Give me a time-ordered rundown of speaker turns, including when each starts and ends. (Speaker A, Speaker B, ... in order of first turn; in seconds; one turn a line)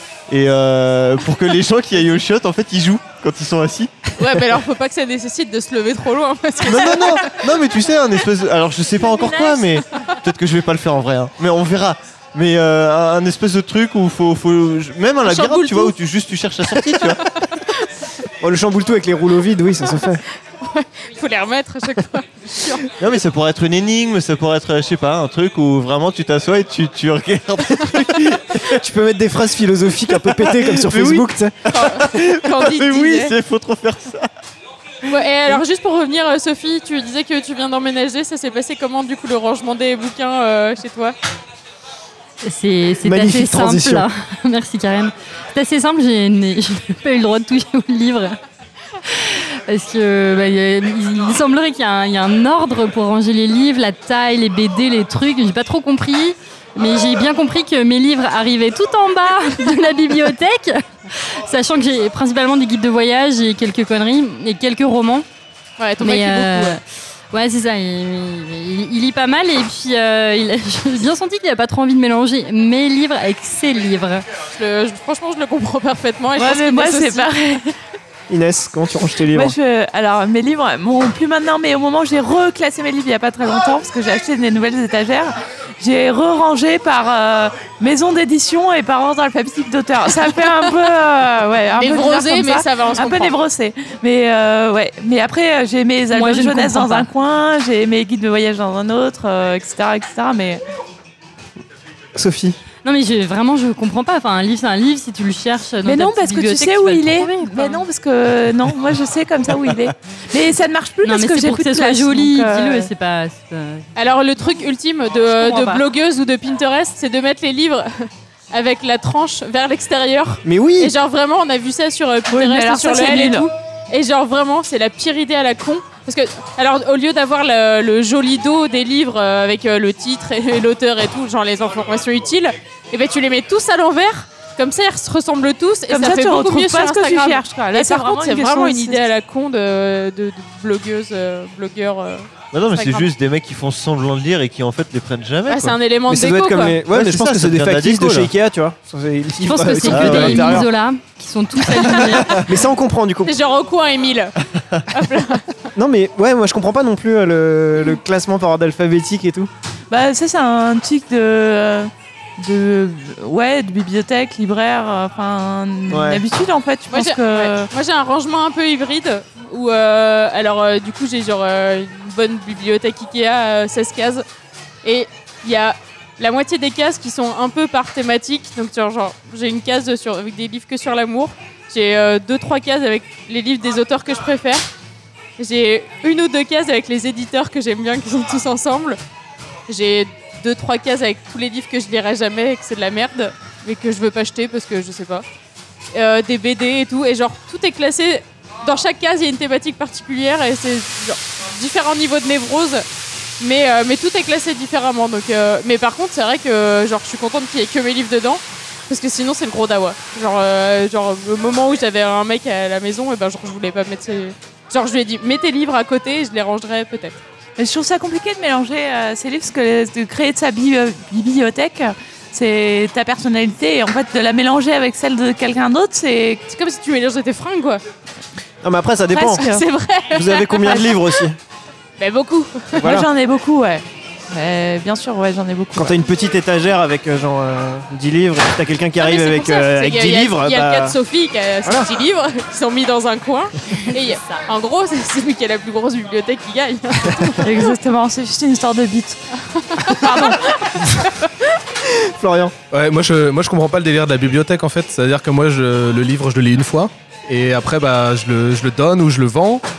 Speaker A: 0.3-3.9
Speaker B: 4.2-7.4
Speaker A: 6.6-17.2
Speaker C: 9.2-9.6
Speaker B: 15.2-15.9
Speaker B: 17.4-17.8
Speaker D: 18.4-20.2
Speaker B: 20.5-22.9
Speaker A: 23.0-28.8
Speaker D: 28.7-31.6
Speaker A: 30.1-34.3
Speaker B: 31.7-33.3
Speaker B: 35.0-41.1
Speaker C: 42.4-48.4
Speaker D: 43.0-44.1
Speaker C: 49.1-65.2
Speaker B: 65.8-66.8
Speaker C: 66.0-74.2
Speaker B: 74.5-77.6
Speaker E: 76.3-77.7
Speaker D: 78.3-79.5
Speaker E: 79.3-100.6
Speaker B: 91.7-93.3
Speaker C: 96.1-97.1
Speaker D: 102.1-102.6
Speaker C: 102.8-107.8
Speaker E: 105.8-112.9
Speaker C: 111.0-113.9
Speaker B: 113.9-143.1
Speaker C: 115.3-115.8
Speaker D: 120.4-120.9
Speaker E: 122.3-123.5
Speaker E: 135.9-139.0
Speaker A: 142.5-145.8
Speaker B: 145.5-146.8
Speaker D: 146.1-150.7
Speaker A: 146.9-148.3
Speaker C: 149.4-152.5
Speaker A: 149.8-150.7
Speaker D: 152.3-153.3
Speaker B: 153.2-154.3
Speaker B: 154.9-155.7
Speaker D: 155.8-159.5
Speaker E: 159.9-167.7
Speaker D: 165.9-166.2
Speaker B: 166.9-174.2
Speaker B: 174.8-184.7
Speaker B: 185.4-189.0
Speaker B: 189.7-195.2
Speaker B: 195.9-202.8
Speaker B: 203.4-217.2
Speaker E: 217.6-226.4
Speaker B: 226.5-227.8
Speaker D: 228.6-229.5
Speaker E: 229.1-229.6
Speaker B: 229.1-231.2
Speaker D: 230.1-231.4
Speaker B: 232.0-232.9
Speaker D: 232.8-233.1
Speaker E: 232.8-235.9
Speaker D: 235.7-241.0
Speaker B: 239.0-247.7
Speaker C: 244.1-244.4
Speaker E: 247.4-249.2
Speaker B: 249.5-251.3
Speaker E: 249.9-250.6
Speaker D: 251.8-252.5
Speaker F: 252.7-259.6